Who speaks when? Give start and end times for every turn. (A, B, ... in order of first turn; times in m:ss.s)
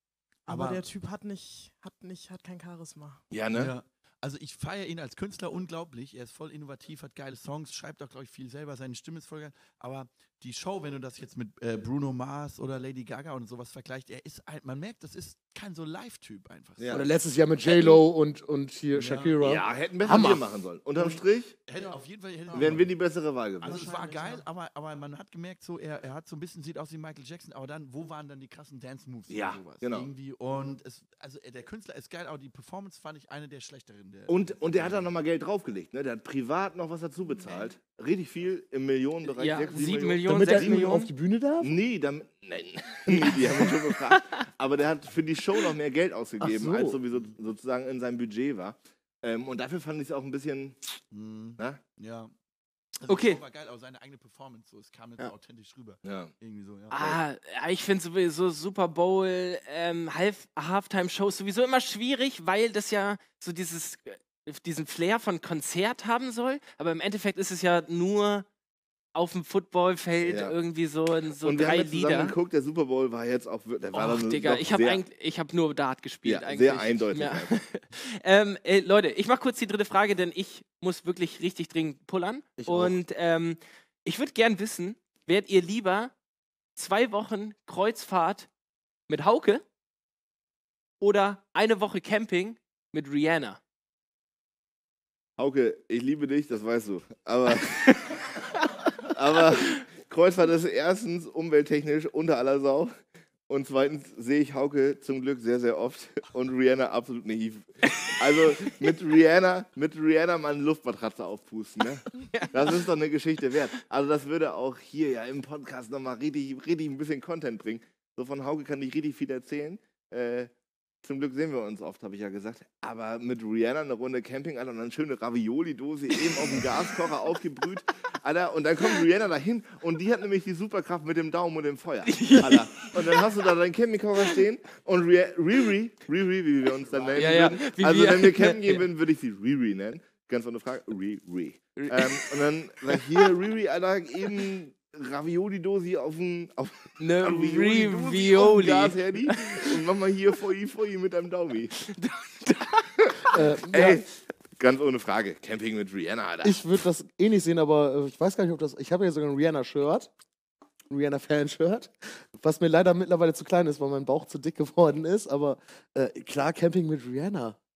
0:00.5-0:03.2 A
0:00.5-0:00.9 B
0:03.3-0:03.7 C
0:03.5-0:17.0 B
0:16.8-0:17.0 C
0:16.9-0:20.4 D
0:17.6-0:18.0 C
0:18.9-0:19.4 B
0:19.4-0:21.6 C
0:21.7-0:22.9 B
0:22.5-0:23.8 C
0:23.6-0:35.1 B
0:23.6-0:24.4 A
0:29.3-0:30.1 C
0:34.3-0:40.8 C
0:39.4-0:41.1 E
0:40.3-0:41.7 D
0:41.6-0:51.0 C
0:43.3-0:43.7 D
0:46.4-0:47.0 D
0:51.1-0:52.3 B
0:53.0-0:57.2 B
0:53.1-0:53.4 E
0:56.0-0:56.3 C
0:56.9-1:08.5 E
1:09.2-1:12.4 E
1:10.2-1:10.6 C
1:11.4-1:15.0 C
1:13.9-1:26.1 E
1:16.2-1:17.6 C
1:22.6-1:23.0 D
1:26.8-1:28.5 E
1:29.1-1:29.6 E
1:31.0-1:33.6 E
1:35.4-1:38.3 C
1:39.0-1:42.9 C
1:43.5-2:00.5 C
1:52.3-1:52.6 E
2:01.0-2:31.8 C
2:12.1-2:13.2 E
2:16.9-2:17.4 B
2:17.2-2:18.8 E
2:21.8-2:22.3 E
2:22.9-2:23.3 E
2:27.0-2:29.8 E
2:31.9-2:32.9 E
2:33.0-2:34.1 C
2:33.3-2:34.0 D
2:34.6-2:36.6 C
2:36.4-2:40.1 D
2:40.9-2:47.6 D